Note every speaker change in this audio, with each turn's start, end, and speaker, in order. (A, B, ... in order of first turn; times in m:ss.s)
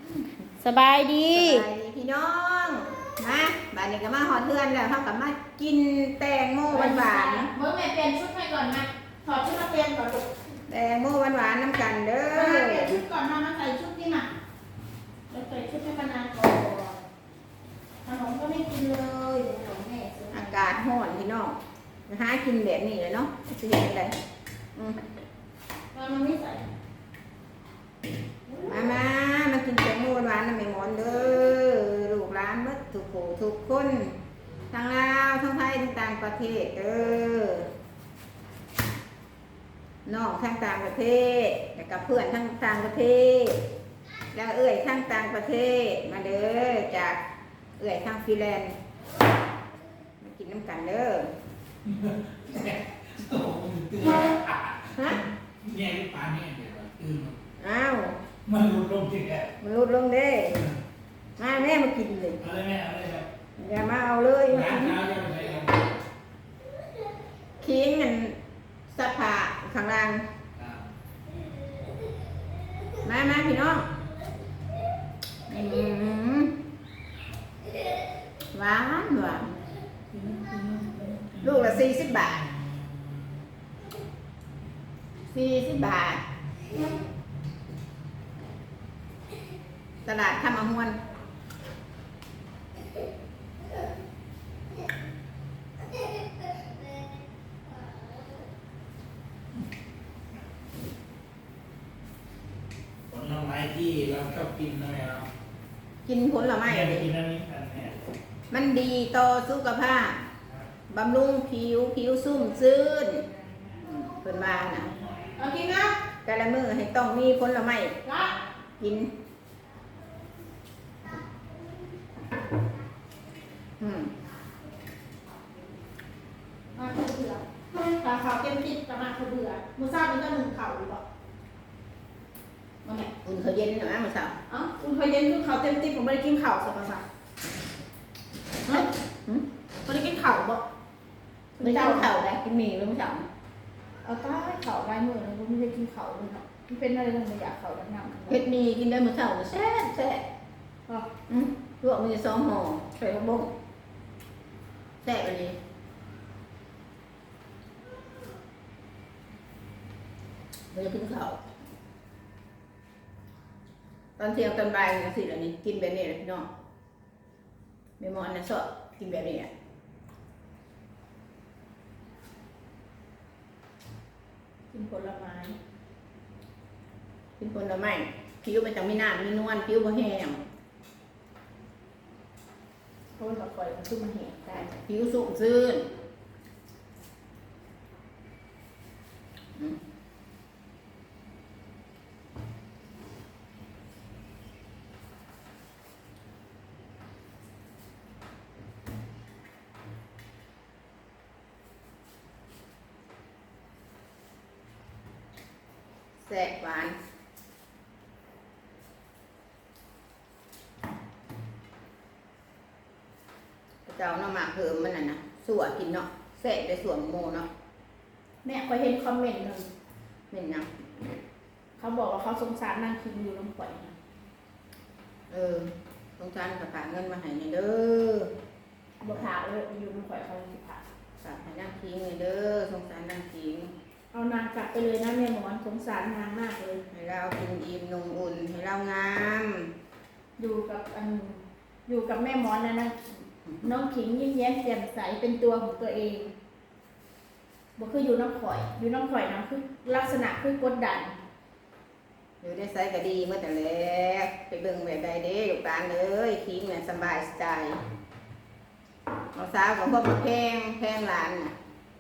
0:00.6-0:01.7 A
0:01.3-0:07.5 B
0:06.7-0:10.3 A
0:10.7-0:13.0 B
0:12.3-0:14.3 A
0:15.3-0:17.0 A
0:18.0-0:20.7 A
0:20.3-0:21.6 B
0:22.1-0:24.1 B
0:24.8-0:25.0 B
0:25.9-0:26.7 A
0:28.5-0:29.0 A
0:28.7-0:34.2 B
0:34.7-0:37.7 B
0:40.1-0:43.6 B
0:44.3-0:47.2 B
0:47.8-0:48.8 B
0:50.2-0:51.3 B
0:51.8-0:57.4 C
0:57.6-0:58.2 B
0:58.5-0:59.5 C
0:59.6-1:00.6 B
1:01.4-1:02.4 B
1:02.4-1:03.3 C
1:03.6-1:05.0 B
1:04.5-1:06.0 C
1:07.6-1:10.3 B
1:13.0-1:13.9 B
1:15.5-1:16.6 B
1:18.5-1:19.5 B
1:20.2-1:21.3 C
1:21.4-1:22.5 B
1:25.3-1:26.2 B
1:30.0-1:31.0 B
1:43.1-1:45.3 C
1:46.0-1:47.1 B
1:46.6-1:48.0 C
1:48.5-1:50.2 B
1:50.9-1:54.9 B
1:55.4-1:56.0 A
1:56.2-1:58.0 B
1:58.0-1:58.4 A
1:58.8-1:59.1 B
2:03.8-2:04.1 B
2:06.8-2:11.0 A
2:12.8-2:13.1 A
2:13.2-2:14.4 B
2:14.5-2:17.0 A
2:18.7-2:19.4 B
2:19.8-2:20.6 A
2:21.6-2:22.1 A
2:21.6-2:23.3 B
2:24.0-2:28.4 A
2:28.3-2:30.2 B
2:31.3-2:33.5 B
2:35.0-2:35.6 B
2:40.7-2:41.4 B
2:44.2-2:46.5 B
2:48.0-2:49.5 B
2:54.7-2:55.6 A
2:57.4-3:00.4 B
3:03.2-3:04.8 A
3:04.9-3:05.9 B
3:26.2-3:27.0 B
3:33.9-3:37.5 B
3:38.4-3:39.7 A
3:40.3-3:40.7 B
3:41.8-3:43.9 A
3:45.3-3:48.3 B
3:49.0-3:50.8 A
3:51.2-3:53.7 B
3:54.1-3:56.8 A
3:56.9-3:59.7 B
4:00.4-4:03.0 A
4:03.6-4:06.3 A
4:07.8-4:11.1 A
4:12.4-4:17.8 B
4:19.3-4:21.5 B